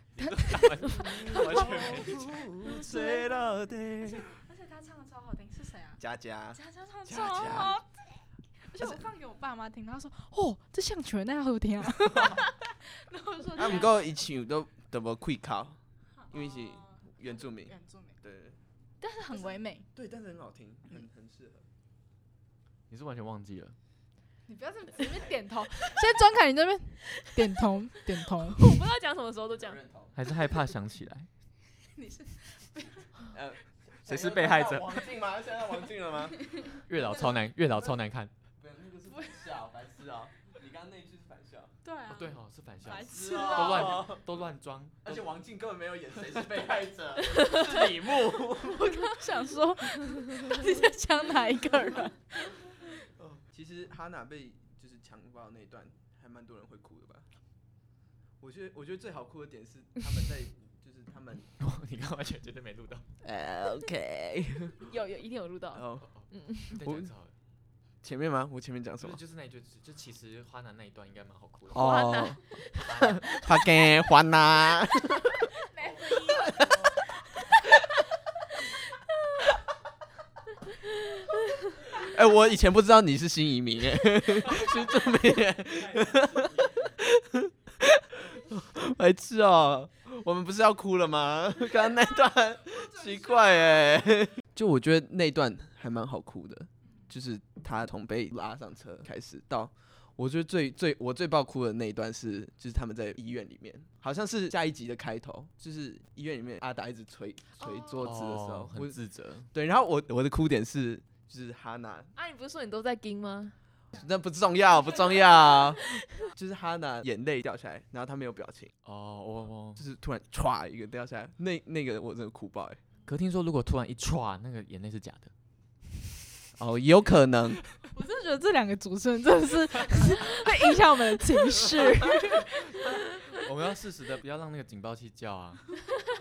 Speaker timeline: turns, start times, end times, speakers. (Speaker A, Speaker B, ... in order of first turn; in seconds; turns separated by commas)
Speaker A: 0.2-2.5, Speaker B: 0.2-6.0, Speaker C: 1.1-4.3, Speaker C: 6.0-7.8, Speaker B: 6.5-7.9, Speaker B: 8.6-14.1, Speaker C: 13.6-15.8, Speaker B: 16.2-18.2, Speaker C: 16.3-18.6, Speaker B: 19.0-19.9, Speaker C: 19.9-21.7, Speaker A: 22.9-23.8, Speaker B: 24.5-28.8, Speaker D: 28.4-29.8, Speaker C: 29.5-30.1, Speaker A: 30.1-31.3, Speaker B: 31.8-33.1, Speaker C: 33.3-36.6, Speaker A: 34.1-35.0, Speaker A: 36.9-38.3, Speaker C: 38.6-41.7, Speaker B: 41.8-44.1, Speaker A: 42.1-45.2, Speaker C: 43.0-44.2, Speaker C: 45.0-49.2, Speaker D: 47.4-47.8, Speaker B: 48.6-52.5, Speaker C: 53.2-57.3, Speaker C: 58.4-61.5, Speaker A: 61.6-63.1, Speaker C: 63.2-64.8, Speaker D: 64.8-66.7, Speaker C: 65.7-66.1, Speaker A: 66.0-67.3, Speaker C: 66.8-67.1, Speaker C: 68.0-69.2, Speaker A: 69.0-72.0, Speaker C: 71.7-76.9, Speaker D: 71.7-73.7, Speaker A: 72.8-73.4, Speaker B: 75.7-77.5, Speaker C: 82.0-109.0, Speaker A: 85.8-86.9, Speaker B: 92.8-94.0, Speaker D: 107.6-108.0, Speaker A: 108.0-109.5, Speaker C: 109.5-112.1, Speaker D: 112.2-113.5, Speaker C: 113.9-118.7, Speaker D: 115.2-115.7, Speaker A: 118.8-119.8, Speaker C: 119.8-122.8, Speaker A: 123.0-125.3, Speaker C: 126.6-127.6, Speaker B: 127.9-132.9, Speaker A: 133.3-135.7